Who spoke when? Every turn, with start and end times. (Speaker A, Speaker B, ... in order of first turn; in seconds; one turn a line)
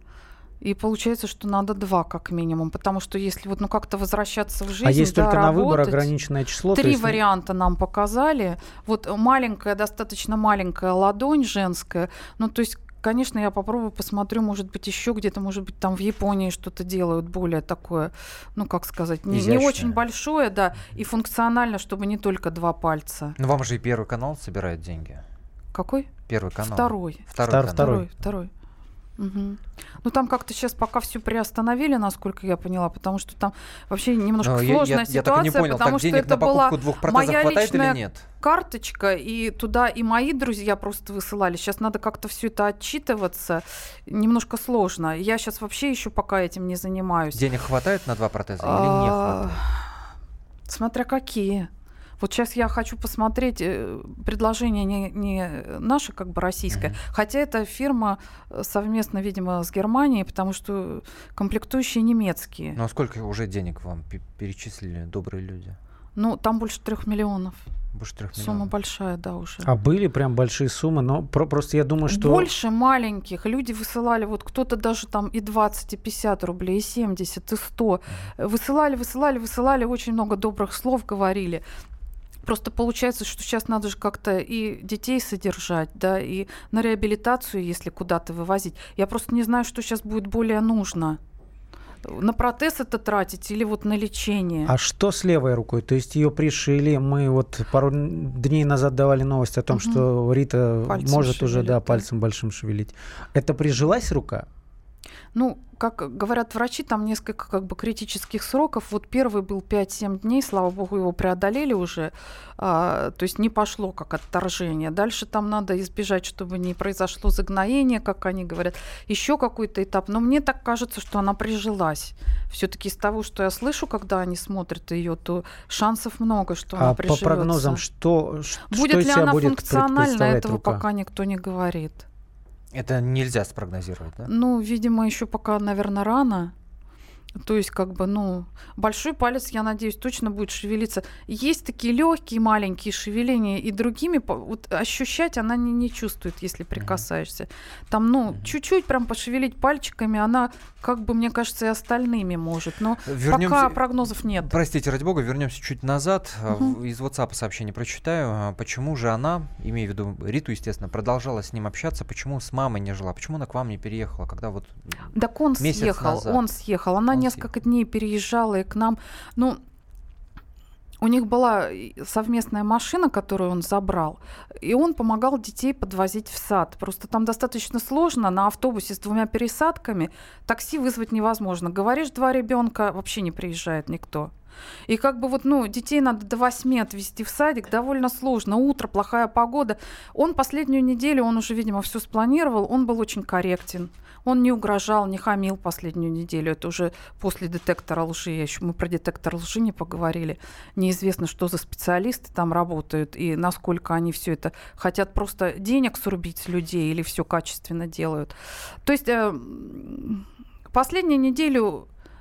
Speaker A: 0.6-6.1
Speaker B: 4.8-7.2
Speaker A: 6.7-23.4
Speaker C: 19.3-20.0
Speaker C: 23.4-25.2
Speaker A: 25.7-26.1
Speaker C: 26.3-28.1
Speaker A: 26.7-28.5
Speaker B: 27.5-28.1
Speaker A: 29.2-47.4
Speaker C: 34.4-38.3
Speaker C: 47.3-49.6
Speaker A: 48.6-49.7
Speaker A: 50.7-51.7
Speaker A: 52.2-62.8
Speaker C: 56.7-57.0
Speaker C: 62.8-65.8
Speaker A: 66.2-67.6
Speaker C: 67.9-68.7
Speaker A: 68.4-69.7
Speaker B: 69.6-72.5
Speaker A: 72.1-81.6
Speaker A: 82.5-91.2
Speaker A: 92.0-94.7
Speaker B: 94.7-104.5
Speaker A: 99.7-100.1
Speaker A: 100.9-102.1
Speaker A: 105.3-127.8
Speaker B: 126.8-130.8
Speaker A: 128.7-132.1
Speaker C: 132.7-134.3
Speaker A: 134.3-136.5
Speaker A: 137.4-154.6
Speaker C: 146.8-147.1
Speaker C: 153.1-153.9
Speaker C: 154.4-165.1
Speaker A: 165.1-169.6
Speaker C: 165.6-166.4
Speaker C: 167.1-167.4
Speaker A: 171.0-184.3
Speaker A: 184.9-208.3
Speaker A: 208.8-211.9